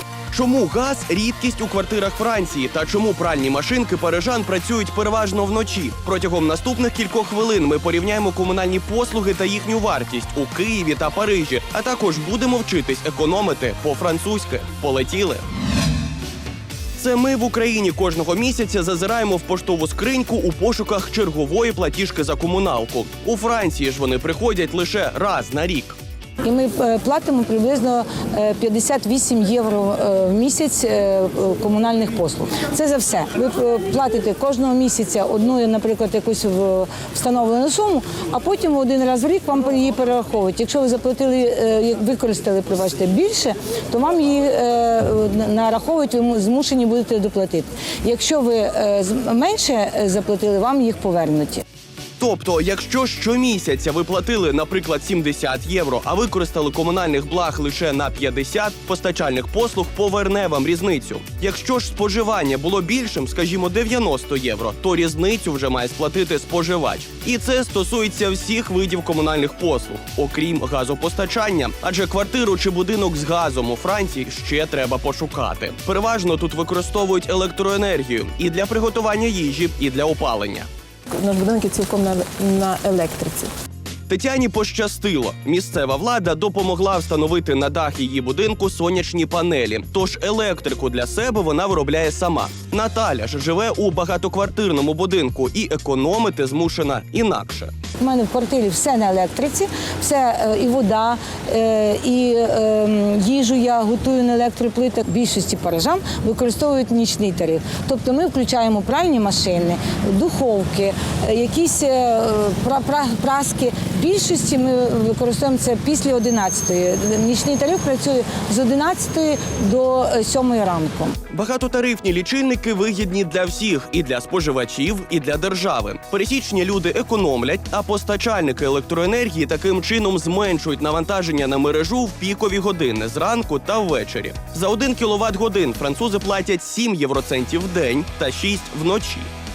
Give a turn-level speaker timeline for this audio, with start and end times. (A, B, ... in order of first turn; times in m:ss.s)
0:00.3-0:15.4 A
0:17.0-0:26.0 A
0:26.4-0:51.6 B
0:52.2-1:20.7 A
1:21.1-1:23.5 C
1:24.1-1:37.7 A
1:38.0-2:01.2 B
2:01.3-2:19.3 A